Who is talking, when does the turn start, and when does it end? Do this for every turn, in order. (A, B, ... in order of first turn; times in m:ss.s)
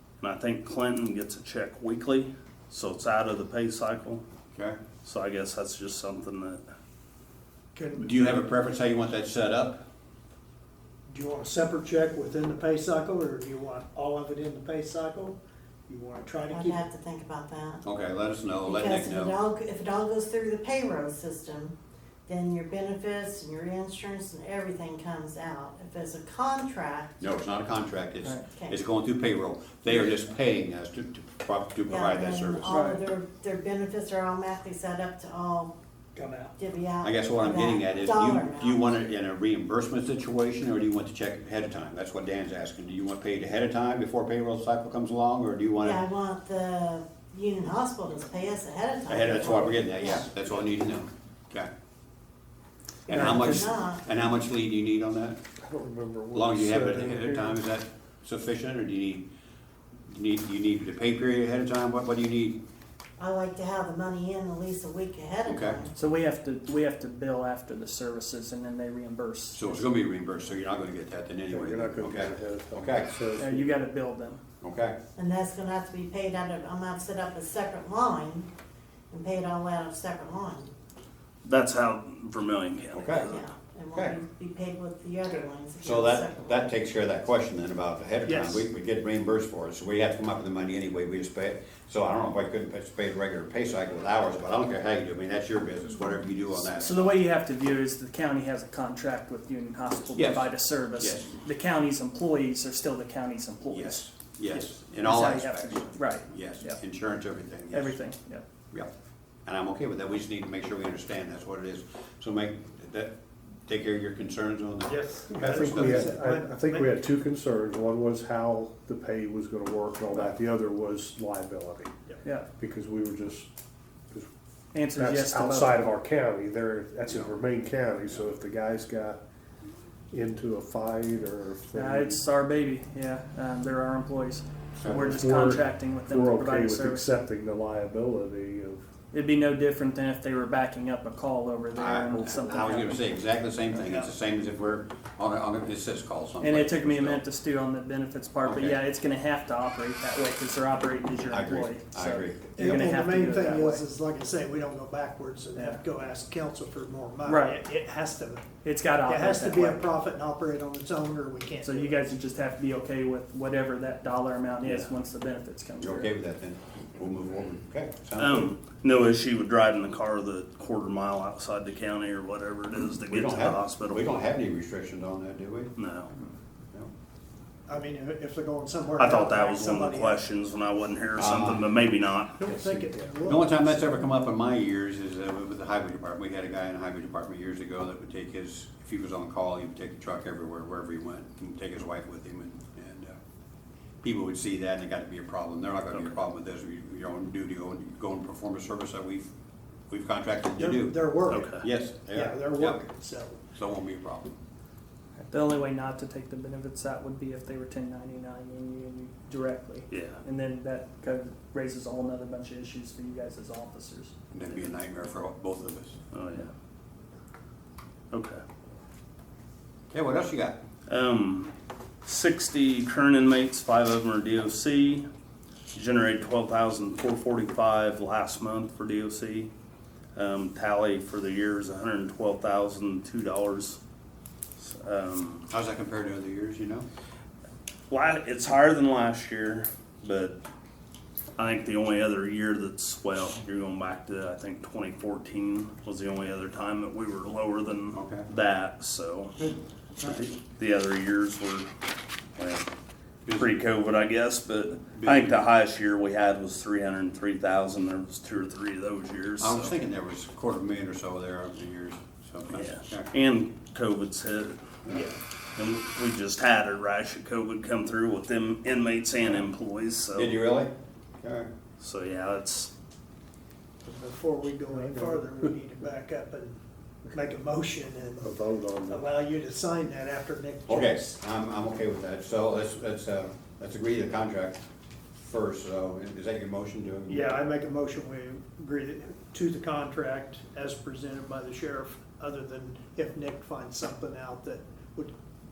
0:00.2-0:04.2 A
0:04.5-0:04.8 B
0:05.0-0:06.6 A
0:07.7-0:08.4 C
0:08.0-0:09.9 B
0:11.1-0:16.8 C
0:16.5-0:17.8 D
0:17.8-0:19.3 B
0:18.6-0:27.2 D
0:27.2-0:32.7 B
0:28.5-0:28.8 D
0:31.9-0:35.7 D
0:32.7-0:33.0 E
0:36.1-0:36.5 C
0:36.6-0:38.8 D
0:37.0-0:46.0 B
0:45.8-0:50.3 D
0:49.1-0:51.7 B
0:53.1-0:55.4 B
0:53.1-0:53.6 E
0:53.1-0:54.0 D
0:55.6-0:57.6 F
0:56.3-0:59.3 B
1:00.1-1:02.6 B
1:03.2-1:05.9 D
1:05.4-1:05.8 B
1:05.9-1:09.8 E
1:09.5-1:13.1 B
1:11.5-1:13.8 F
1:13.4-1:14.4 E
1:14.6-1:15.0 B
1:15.2-1:18.5 D
1:19.1-1:20.7 D
1:21.4-1:23.2 A
1:22.9-1:23.2 B
1:23.2-1:26.7 D
1:23.9-1:24.2 B
1:25.8-1:37.1 B
1:28.3-1:28.6 C
1:36.7-1:46.8 E
1:40.2-1:41.3 B
1:43.7-1:48.0 B
1:47.7-1:48.4 E
1:49.4-1:55.9 B
1:54.9-1:57.0 C
1:55.3-2:01.9 F
2:02.2-2:02.5 E
2:02.6-2:03.5 F
2:04.7-2:05.8 E
2:04.9-2:09.2 F
2:10.1-2:12.2 F
2:11.7-2:17.2 E
2:14.8-2:15.0 B
2:14.8-2:18.8 F
2:19.1-2:23.0 E
2:21.7-2:27.2 B
2:23.8-2:24.1 C
2:26.4-2:33.8 E
2:28.4-2:28.8 B
2:31.2-2:32.4 B
2:32.5-2:38.5 C
2:37.2-2:37.6 E
2:38.6-2:39.8 E
2:39.0-2:42.0 C
2:41.6-2:46.1 E
2:45.8-2:48.4 B
2:48.2-2:54.0 A
2:53.1-2:55.7 B
2:55.8-2:56.1 A
2:57.7-3:00.2 C
2:59.0-3:02.4 A
3:01.2-3:01.7 B
3:02.3-3:03.6 C
3:02.4-3:03.4 F
3:03.2-3:13.2 B
3:14.0-3:19.3 B
3:19.9-3:22.8 B
3:20.6-3:23.4 C
3:21.3-3:21.6 A
3:23.5-3:24.3 B
3:25.2-3:34.1 E
3:29.9-3:30.2 A
3:34.3-3:36.0 B
3:36.1-3:36.5 A
3:38.1-3:38.4 A
3:39.9-3:40.6 B
3:40.9-3:41.5 A
3:42.0-3:45.0 A
3:45.7-3:49.5 A
3:50.1-3:53.8 A
3:54.6-3:55.5 A
3:55.5-3:56.9 B
3:57.9-4:00.4 A
4:01.4-4:09.4 A
4:07.9-4:08.3 B
4:10.0-4:10.3 B
4:10.3-4:11.7 A
4:12.4-4:12.7 A
4:13.2-4:13.6 B
4:13.4-4:19.7 A
4:14.9-4:15.4 B
4:19.4-4:23.1 B
4:22.5-4:30.4 A
4:24.9-4:25.1 B
4:30.1-4:31.5 B
4:31.8-4:32.7 A
4:33.8-4:36.6 C
4:34.7-4:35.2 F
4:37.1-4:38.3 C
4:38.2-4:39.0 F
4:38.8-4:41.1 C
4:40.7-4:44.6 B
4:45.2-4:47.2 B
4:47.1-4:55.1 C